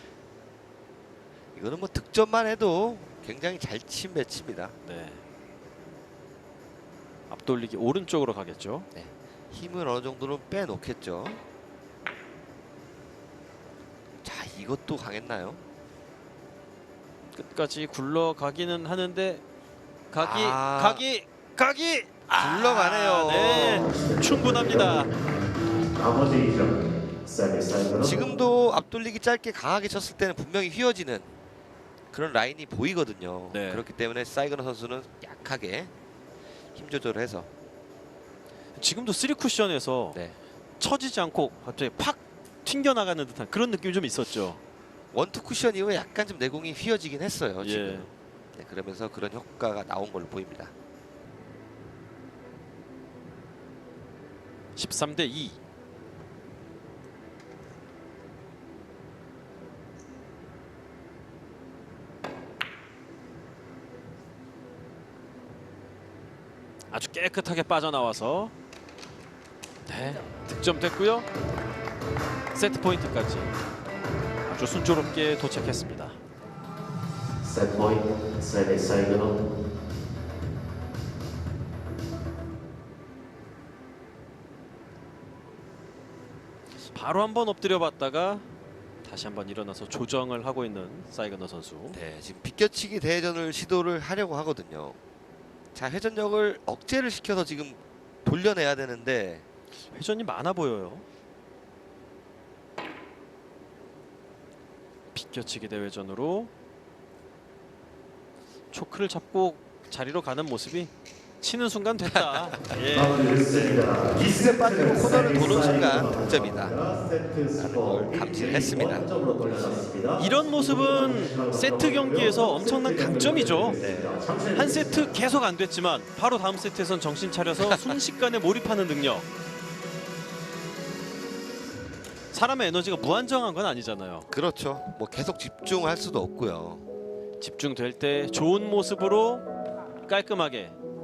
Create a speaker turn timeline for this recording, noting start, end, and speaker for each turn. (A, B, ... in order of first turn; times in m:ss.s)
0:01.6-0:04.8 A
0:04.8-0:05.2 B
0:07.3-0:08.9 B
0:09.0-0:11.4 A
0:14.2-0:15.6 A
0:17.3-0:19.4 B
0:20.1-0:25.1 B
0:20.2-0:21.0 A
0:22.4-0:24.0 A
0:23.9-0:25.0 C
0:26.0-0:28.2 C
0:27.9-0:31.3 A
0:32.1-0:35.9 A
0:33.5-0:33.8 B
0:36.8-0:37.5 A
0:38.8-0:40.2 B
0:40.8-0:44.6 B
0:45.1-0:50.7 A
0:47.6-0:48.1 B
0:54.8-0:55.6 B
1:06.9-1:08.5 B
1:09.9-1:11.3 B
1:12.5-1:13.6 B
1:14.5-1:16.2 B
1:17.4-1:19.3 C
1:26.9-1:28.5 B
1:29.0-1:32.0 B
1:31.9-1:35.0 A
1:35.8-1:39.4 A
1:39.9-1:41.1 B
1:45.1-1:46.5 B
1:48.7-1:53.3 B
1:52.9-2:05.1 C
1:53.9-1:56.8 A
1:57.5-1:59.1 A
2:00.2-2:03.8 B
2:03.8-2:04.3 A
2:04.5-2:09.3 B
2:12.3-2:14.3 B
2:14.3-2:16.8 A
2:17.4-2:19.5 B
2:20.0-2:20.8 B